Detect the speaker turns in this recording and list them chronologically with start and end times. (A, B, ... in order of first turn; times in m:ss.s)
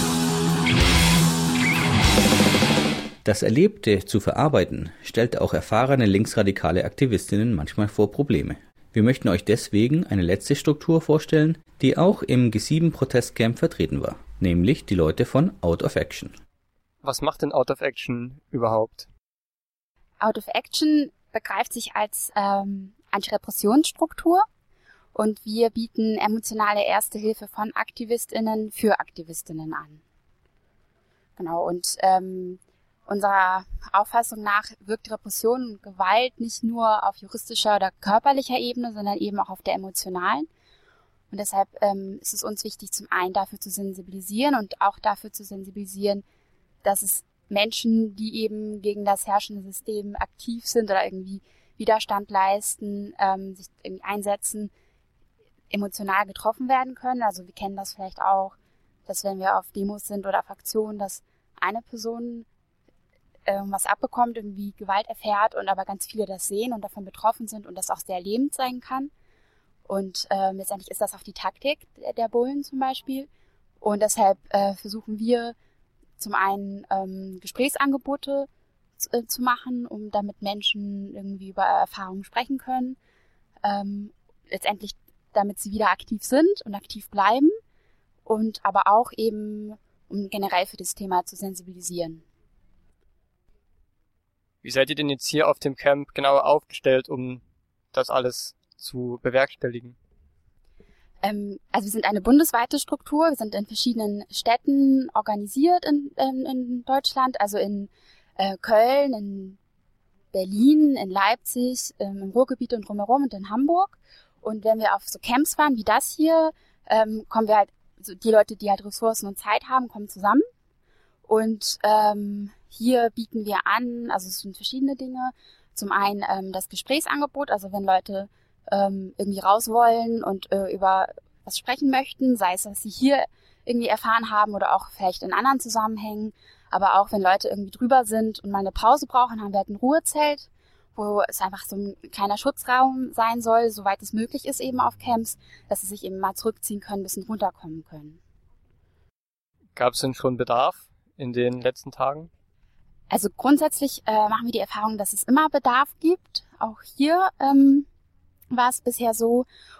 0:03.2-0:16.4 A
0:17.0-0:19.1 B
0:20.2-0:24.4 C
0:25.1-0:30.0 C
0:31.4-0:40.5 C
0:41.3-0:46.2 C
0:46.8-0:54.7 C
0:55.7-0:58.6 C
0:59.1-1:02.4 C
1:03.5-1:09.1 C
1:09.9-1:13.3 C
1:13.8-1:15.5 C
1:16.2-1:18.5 C
1:19.0-1:23.0 C
1:23.6-1:27.5 C
1:28.2-1:32.2 C
1:34.6-1:40.0 B
1:41.2-1:49.6 C
1:50.3-2:00.4 C
2:01.3-2:28.2 C
2:29.8-2:32.3 B
2:33.1-2:37.8 C
2:38.5-2:39.4 C